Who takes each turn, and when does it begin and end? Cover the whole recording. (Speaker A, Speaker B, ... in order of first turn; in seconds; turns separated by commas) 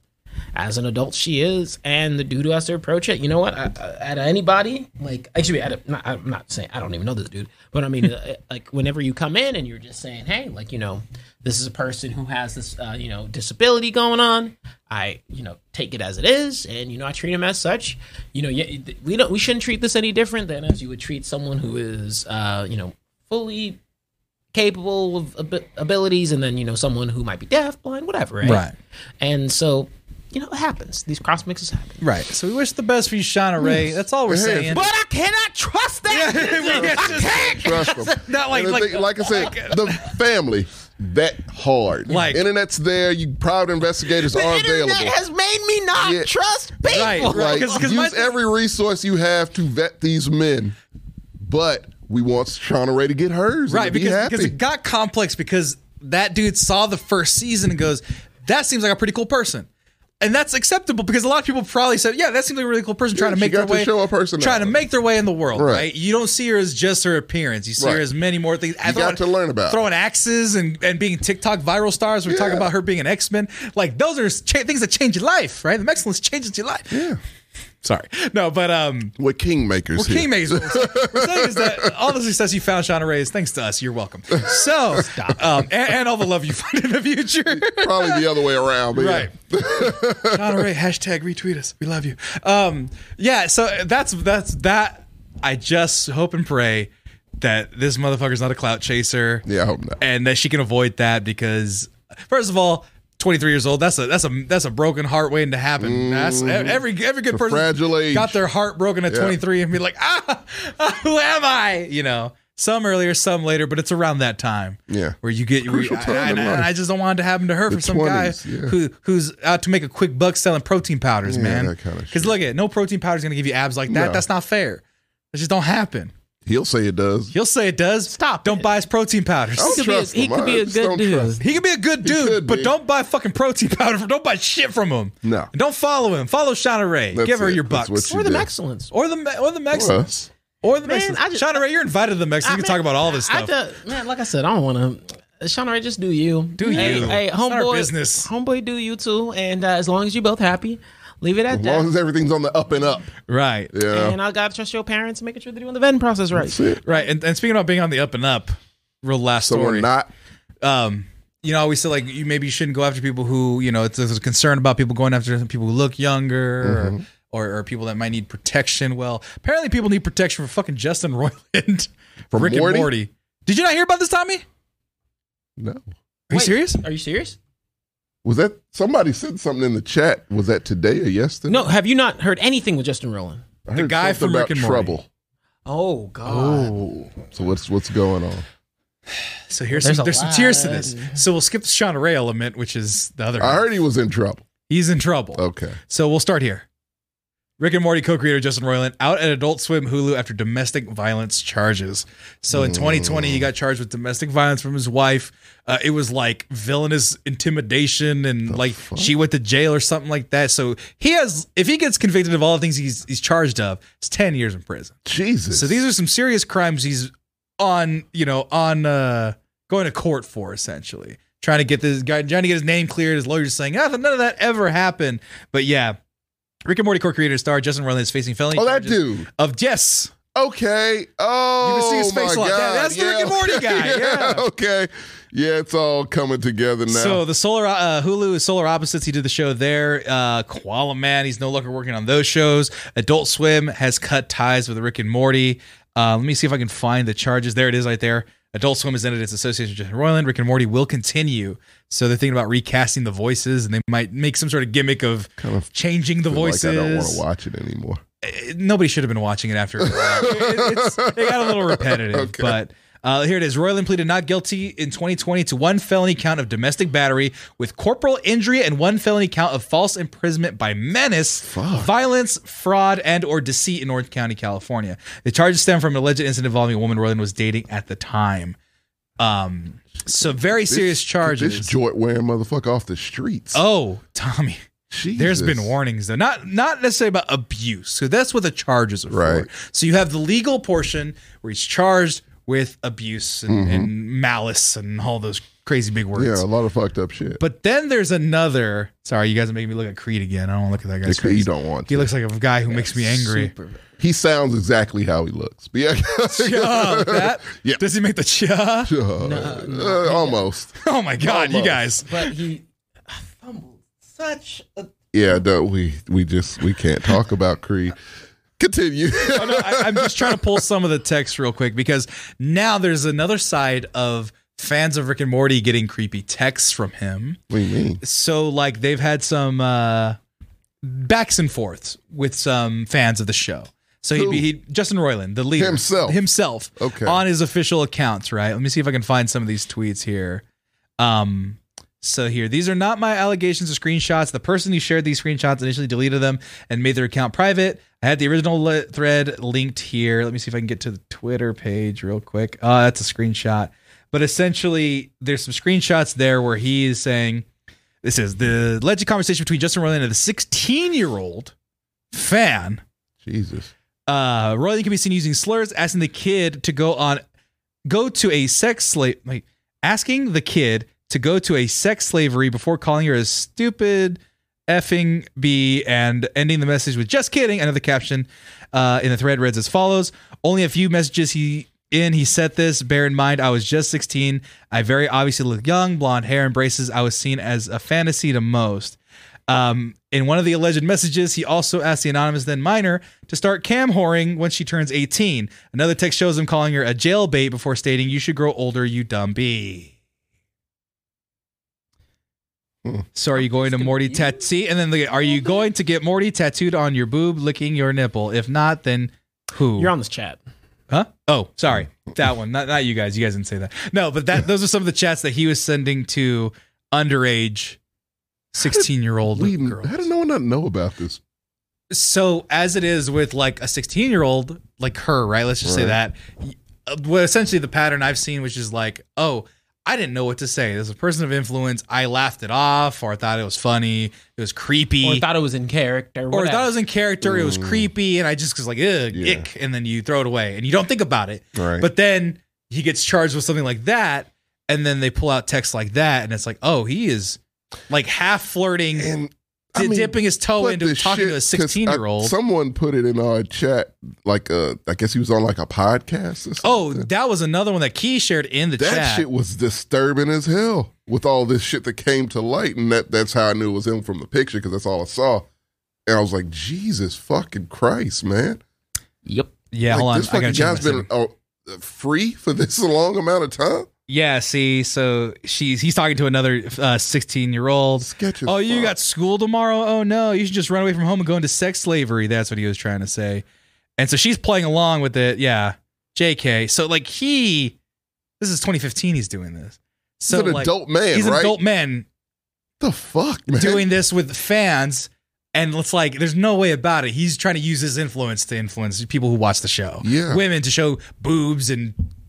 Speaker A: 0.5-23.8, Speaker A: 24.5-28.7, Speaker B: 28.4-28.7, Speaker A: 29.2-32.0, Speaker B: 32.0-34.9, Speaker C: 33.6-34.9, Speaker A: 34.7-38.2, Speaker B: 36.1-39.9, Speaker C: 36.5-45.1, Speaker B: 42.1-42.4, Speaker A: 44.2-47.8, Speaker C: 46.0-46.3, Speaker C: 46.8-50.7, Speaker B: 46.9-48.4, Speaker C: 51.4-54.5, Speaker B: 53.7-59.7, Speaker B: 60.2-77.0, Speaker C: 63.1-64.8, Speaker C: 65.5-65.9, Speaker C: 67.8-68.0, Speaker C: 68.8-69.8, Speaker C: 72.3-72.7, Speaker C: 76.9-77.2, Speaker B: 77.8-79.1, Speaker C: 79.2-81.9, Speaker B: 79.9-88.2, Speaker C: 87.5-90.6, Speaker B: 88.9-99.5, Speaker C: 99.4-100.0, Speaker B: 100.0-126.1, Speaker C: 105.8-108.4, Speaker C: 109.1-109.4, Speaker C: 114.9-116.7, Speaker C: 117.7-118.8, Speaker C: 121.2-122.3, Speaker C: 123.9-124.2, Speaker C: 126.5-127.3, Speaker B: 127.3-129.8, Speaker A: 128.1-128.7, Speaker C: 129.6-131.4, Speaker A: 129.6-131.4, Speaker B: 131.4-138.1, Speaker C: 132.0-132.7, Speaker C: 135.2-135.5, Speaker C: 137.1-138.5, Speaker A: 138.1-138.9, Speaker B: 138.9-143.5, Speaker C: 139.7-140.1, Speaker A: 140.8-141.6, Speaker A: 142.4-151.9, Speaker B: 146.6-148.3, Speaker C: 146.7-147.1, Speaker C: 151.5-153.1, Speaker B: 153.3-153.7, Speaker C: 153.7-154.2, Speaker A: 153.9-156.6, Speaker C: 156.3-156.8, Speaker B: 156.8-159.9, Speaker C: 159.4-160.1, Speaker B: 160.6-174.4, Speaker C: 166.6-167.0, Speaker C: 172.3-172.9, Speaker C: 175.6-175.9, Speaker B: 176.3-176.8, Speaker A: 176.3-177.4, Speaker C: 178.2-181.7, Speaker A: 181.5-183.4, Speaker C: 183.7-185.1, Speaker B: 183.7-185.0, Speaker A: 185.7-186.8, Speaker B: 186.3-187.1, Speaker C: 187.1-188.4, Speaker B: 189.5-193.7, Speaker A: 189.7-191.2, Speaker C: 193.4-194.4, Speaker B: 194.7-196.6, Speaker C: 195.3-195.8, Speaker B: 197.6-214.9, Speaker C: 202.5-203.5, Speaker C: 208.5-209.1, Speaker C: 215.1-215.8, Speaker B: 215.5-226.0, Speaker B: 226.6-230.1, Speaker C: 228.5-229.3, Speaker C: 230.3-237.2, Speaker B: 231.6-234.4, Speaker B: 236.9-257.2, Speaker C: 255.4-255.7, Speaker C: 256.2-258.0, Speaker B: 258.2-278.6, Speaker C: 259.8-262.6, Speaker C: 271.4-271.9, Speaker B: 279.2-281.7, Speaker C: 280.1-283.6, Speaker B: 283.5-284.6, Speaker C: 284.9-285.7, Speaker B: 285.1-296.4, Speaker C: 289.1-289.5, Speaker C: 293.5-293.9, Speaker C: 296.1-297.4, Speaker B: 297.4-303.5, Speaker C: 301.1-302.1, Speaker A: 302.7-303.8, Speaker C: 304.0-307.8, Speaker B: 306.2-308.9, Speaker C: 308.9-311.9, Speaker A: 309.2-310.4, Speaker B: 310.8-312.3, Speaker A: 312.0-314.9, Speaker C: 315.1-317.9, Speaker C: 318.6-320.6, Speaker B: 319.3-327.4, Speaker C: 327.5-328.0, Speaker B: 328.0-330.2, Speaker B: 330.8-340.4, Speaker C: 334.1-334.4, Speaker C: 335.6-336.2, Speaker C: 336.8-337.2, Speaker B: 341.0-357.4, Speaker B: 358.0-361.5, Speaker B: 362.1-362.8, Speaker C: 363.2-363.7, Speaker B: 364.1-367.2, Speaker B: 367.9-389.0, Speaker B: 389.5-399.9, Speaker B: 403.1-409.9, Speaker A: 403.4-404.4, Speaker A: 405.2-405.7, Speaker A: 409.8-410.4, Speaker B: 410.9-417.8, Speaker B: 418.5-420.0, Speaker C: 418.6-421.2, Speaker B: 421.9-435.2, Speaker C: 425.6-426.0, Speaker A: 435.0-436.7, Speaker B: 436.3-449.1, Speaker C: 437.2-437.9, Speaker C: 439.1-439.4, Speaker C: 441.5-441.9, Speaker C: 448.9-457.1, Speaker B: 449.7-452.3, Speaker B: 456.6-459.2, Speaker C: 458.8-465.4, Speaker C: 466.1-468.6, Speaker A: 469.2-469.5, Speaker B: 469.7-471.1, Speaker C: 469.9-473.9, Speaker B: 474.1-483.4, Speaker C: 478.0-478.9, Speaker B: 484.0-487.7, Speaker B: 488.4-492.1, Speaker C: 490.3-491.6, Speaker C: 492.8-493.9, Speaker B: 493.5-501.9, Speaker C: 500.0-500.4